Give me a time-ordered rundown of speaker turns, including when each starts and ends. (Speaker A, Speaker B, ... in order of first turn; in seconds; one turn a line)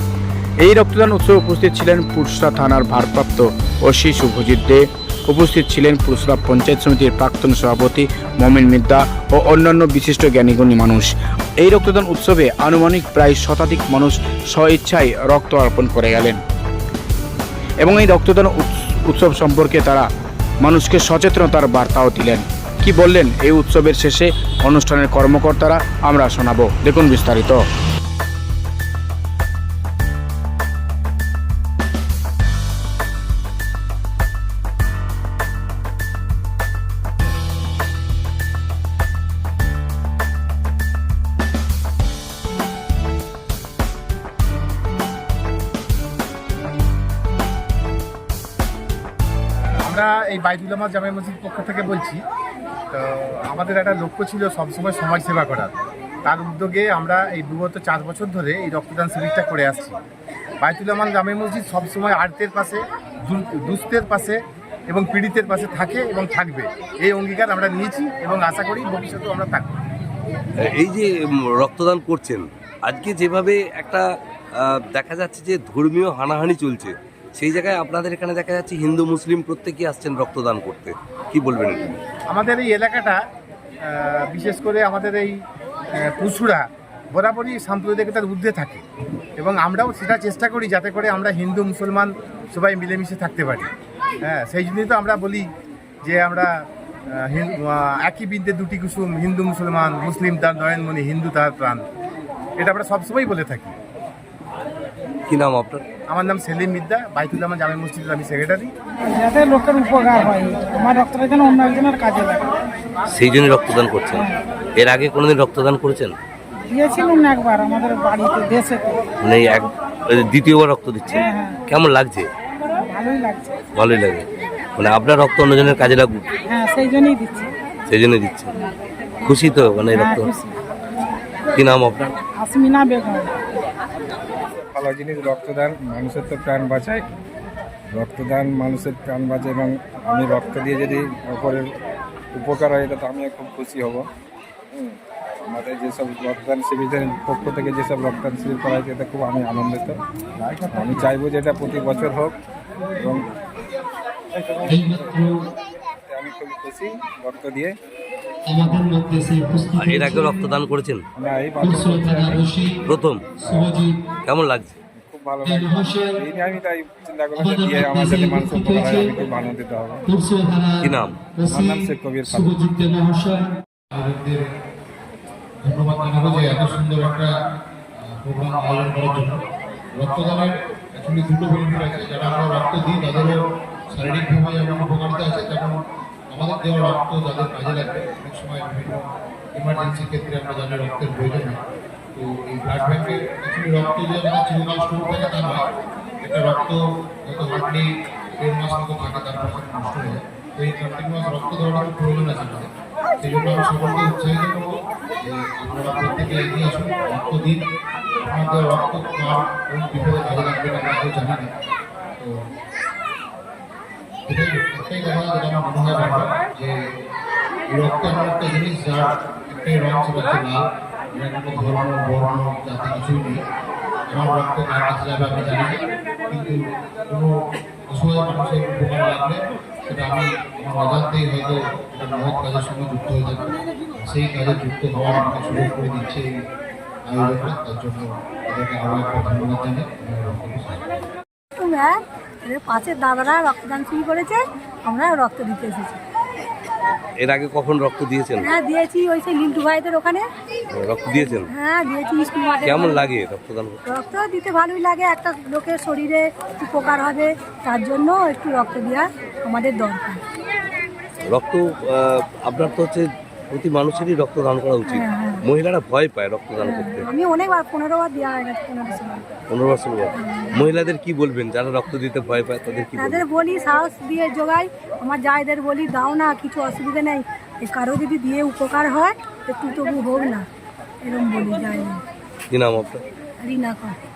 Speaker A: 0.6-16.4
Speaker A: 17.8-20.1
Speaker A: 20.6-27.6
Speaker B: 49.8-52.2
Speaker B: 52.9-55.7
Speaker B: 56.2-60.0
Speaker B: 60.6-69.7
Speaker C: 70.6-74.1
Speaker C: 74.6-81.8
Speaker B: 82.3-83.2
Speaker B: 83.8-88.8
Speaker B: 89.4-93.7
Speaker B: 94.2-95.5
Speaker B: 96.0-96.6
Speaker B: 97.2-101.8
Speaker B: 102.6-103.7
Speaker C: 105.3-105.8
Speaker B: 106.1-108.7
Speaker D: 109.1-112.5
Speaker C: 113.1-116.1
Speaker D: 116.7-119.0
Speaker C: 119.2-122.3
Speaker D: 121.1-121.6
Speaker D: 122.8-123.6
Speaker C: 123.7-126.3
Speaker D: 126.5-127.5
Speaker C: 127.9-128.6
Speaker C: 129.2-130.3
Speaker D: 129.9-130.6
Speaker C: 131.5-132.2
Speaker D: 132.3-133.3
Speaker E: 134.7-137.1
Speaker E: 137.9-141.7
Speaker E: 142.3-144.1
Speaker E: 144.7-152.3
Speaker E: 153.0-153.4
Speaker E: 154.3-155.2
Speaker F: 154.7-155.4
Speaker E: 156.0-157.7
Speaker F: 158.5-160.4
Speaker C: 159.8-161.0
Speaker E: 161.2-162.6
Speaker F: 161.6-162.8
Speaker C: 162.8-163.3
Speaker F: 163.4-164.0
Speaker C: 164.2-164.7
Speaker E: 164.9-170.0
Speaker F: 165.5-166.2
Speaker F: 167.4-169.1
Speaker F: 170.1-173.5
Speaker C: 170.8-171.2
Speaker E: 171.4-172.7
Speaker G: 173.9-174.4
Speaker G: 175.6-177.3
Speaker G: 178.0-179.4
Speaker G: 180.0-191.6
Speaker G: 192.1-195.6
Speaker G: 196.2-207.6
Speaker G: 208.2-211.5
Speaker G: 212.2-212.4
Speaker G: 214.3-216.9
Speaker G: 217.7-223.4
Speaker G: 224.1-236.3
Speaker G: 237.1-240.9
Speaker H: 241.6-246.0
Speaker C: 247.2-248.5
Speaker H: 248.4-250.2
Speaker C: 250.7-251.5
Speaker H: 251.5-253.1
Speaker C: 252.6-253.8
Speaker H: 253.9-260.2
Speaker C: 261.2-267.1
Speaker H: 264.9-265.4
Speaker H: 266.6-269.2
Speaker C: 269.5-273.2
Speaker H: 270.2-270.6
Speaker H: 272.9-280.4
Speaker H: 281.0-282.0
Speaker C: 282.5-283.0
Speaker H: 283.4-283.9